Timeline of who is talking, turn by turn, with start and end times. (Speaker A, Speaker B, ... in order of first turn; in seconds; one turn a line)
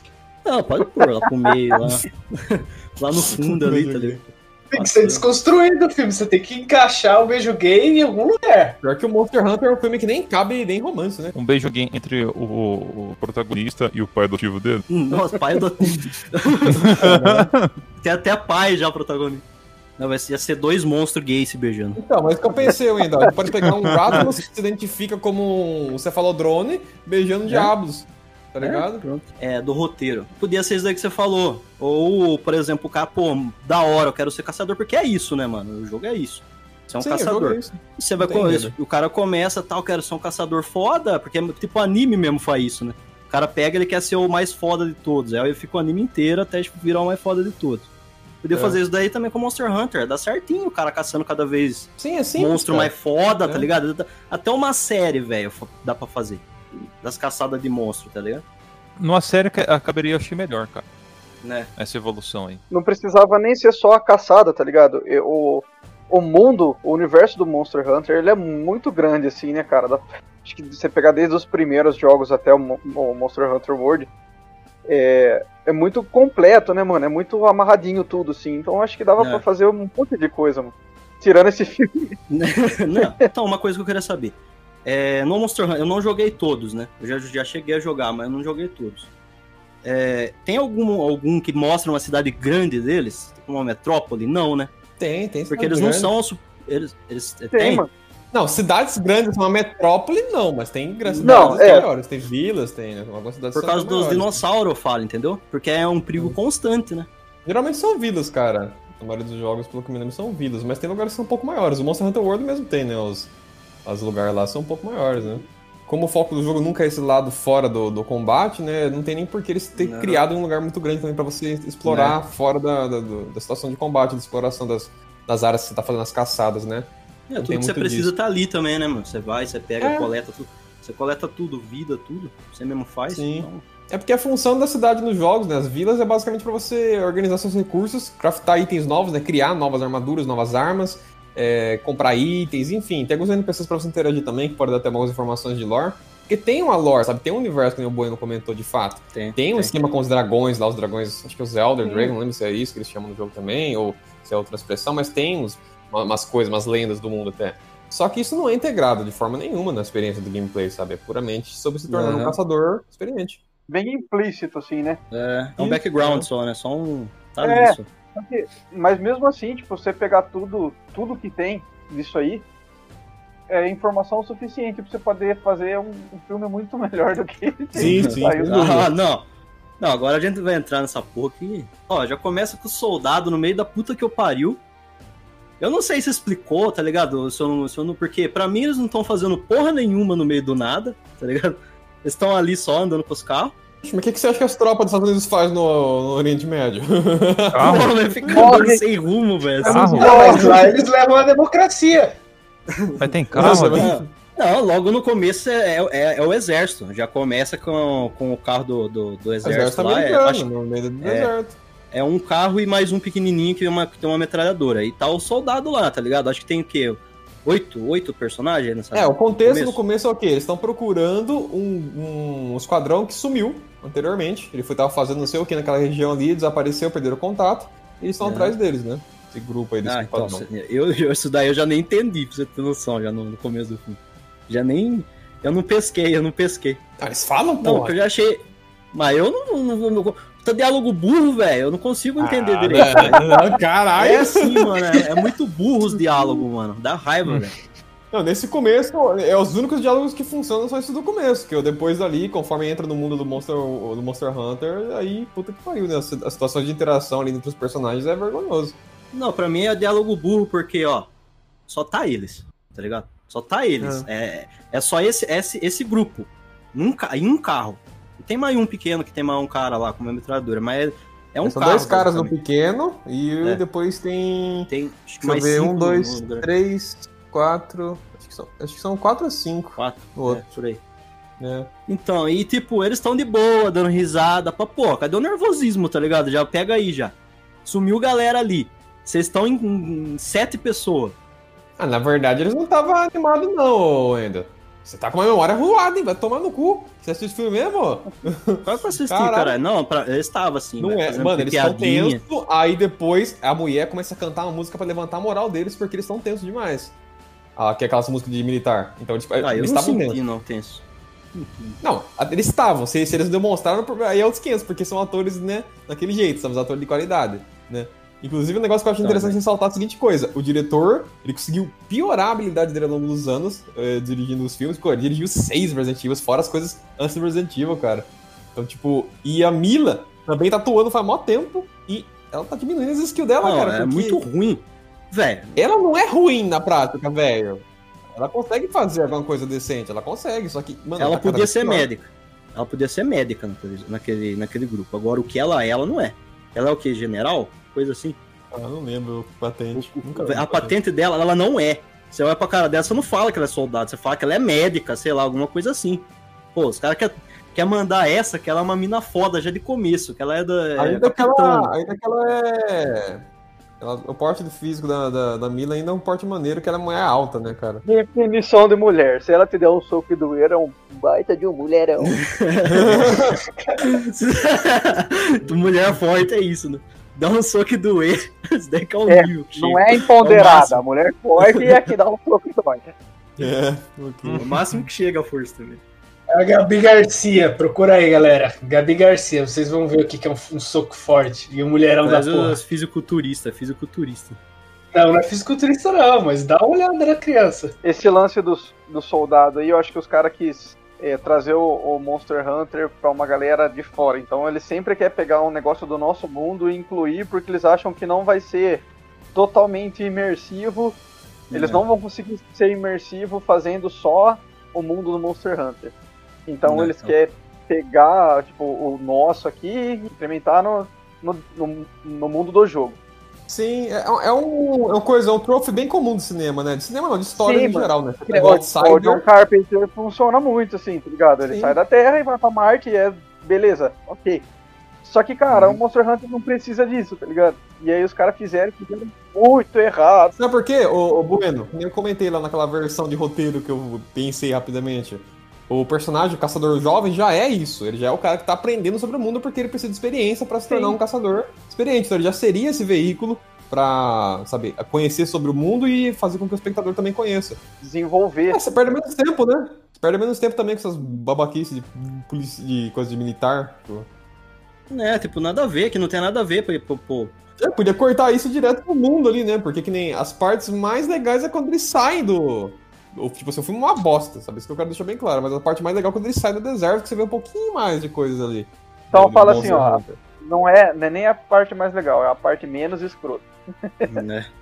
Speaker A: 0.4-5.2
Speaker B: 3.3-4.2
Speaker C: 4.7-8.8
Speaker B: 8.8-11.3
Speaker D: 11.3-14.8
Speaker A: 14.9-17.1
Speaker D: 16.7-17.7
Speaker B: 16.9-17.5
Speaker A: 18.0-19.4
Speaker A: 20.0-22.0
Speaker B: 22.0-29.0
Speaker A: 27.4-27.7
Speaker A: 28.6-47.9
Speaker B: 37.0-38.8
Speaker A: 48.4-56.4
Speaker B: 48.5-48.8
Speaker B: 52.0-53.7
Speaker A: 57.0-58.4
Speaker D: 59.0-60.9
Speaker A: 61.4-61.7
Speaker D: 61.8-62.6
Speaker E: 62.7-74.1
Speaker E: 74.9-82.1
Speaker A: 79.2-79.4
Speaker A: 82.3-89.1
Speaker A: 89.8-94.7
Speaker B: 95.0-96.1
Speaker A: 95.5-97.8
Speaker E: 97.5-97.9
Speaker B: 98.3-104.4
Speaker A: 101.0-101.8
Speaker E: 101.2-101.8
Speaker A: 103.5-107.1
Speaker B: 107.4-113.3
Speaker B: 113.8-128.1
Speaker A: 119.8-120.2
Speaker A: 121.8-122.2
Speaker A: 127.3-133.6
Speaker B: 129.8-130.1
Speaker B: 133.1-163.4
Speaker A: 149.1-149.7
Speaker A: 161.9-162.3
Speaker E: 163.7-165.0
Speaker A: 165.1-167.8
Speaker B: 165.6-166.3
Speaker E: 167.4-172.4
Speaker E: 173.5-178.6
Speaker B: 177.7-178.9
Speaker A: 177.8-179.2
Speaker A: 179.8-184.6
Speaker A: 185.6-193.6
Speaker B: 193.8-198.6
Speaker D: 197.5-197.9
Speaker A: 197.6-200.2
Speaker E: 198.3-198.8
Speaker D: 199.6-200.2
Speaker B: 199.6-200.7
Speaker C: 199.9-202.2
Speaker E: 200.0-200.4
Speaker A: 202.7-210.5
Speaker D: 203.0-204.0
Speaker B: 203.3-204.1
Speaker B: 209.4-211.6
Speaker A: 211.0-211.3
Speaker A: 211.9-219.8
Speaker B: 218.9-230.4
Speaker A: 228.2-228.6
Speaker A: 229.8-236.8
Speaker B: 237.0-237.9
Speaker A: 237.6-243.4
Speaker B: 242.2-245.2
Speaker A: 244.0-247.6
Speaker B: 245.9-246.4
Speaker B: 248.1-258.8
Speaker A: 259.1-261.1
Speaker A: 261.7-272.3
Speaker B: 263.8-264.1
Speaker B: 271.4-274.7
Speaker A: 274.7-276.5
Speaker B: 275.2-280.4
Speaker A: 279.8-280.8
Speaker B: 281.4-281.7
Speaker A: 281.9-291.2
Speaker B: 291.8-299.6
Speaker A: 298.6-302.2
Speaker B: 300.8-306.9
Speaker B: 307.6-310.2
Speaker A: 309.4-310.8
Speaker A: 311.3-311.8
Speaker B: 311.8-334.2
Speaker A: 319.0-319.4
Speaker A: 333.4-335.6
Speaker B: 335.6-341.9
Speaker A: 341.0-348.2
Speaker B: 348.5-350.7
Speaker A: 349.7-361.7
Speaker B: 360.8-363.2
Speaker B: 363.8-367.8
Speaker E: 367.9-372.2
Speaker A: 372.0-373.2
Speaker B: 372.7-373.4
Speaker A: 373.8-380.8
Speaker E: 379.1-382.9
Speaker B: 380.2-380.6
Speaker B: 383.4-384.4
Speaker D: 384.2-384.6
Speaker A: 384.4-385.8
Speaker C: 386.3-392.6
Speaker A: 392.0-394.4
Speaker C: 394.9-397.7
Speaker E: 397.8-411.0
Speaker A: 411.5-411.8
Speaker E: 411.5-415.9
Speaker E: 416.5-423.0
Speaker A: 416.7-417.1
Speaker B: 423.5-429.2
Speaker E: 427.3-434.4
Speaker B: 431.4-431.8
Speaker E: 435.0-440.4
Speaker A: 435.5-435.8
Speaker B: 440.4-457.6
Speaker E: 450.7-451.0
Speaker E: 457.8-459.0
Speaker B: 458.5-464.1
Speaker A: 464.9-467.4
Speaker B: 467.6-480.2
Speaker E: 479.1-483.5
Speaker A: 484.1-484.5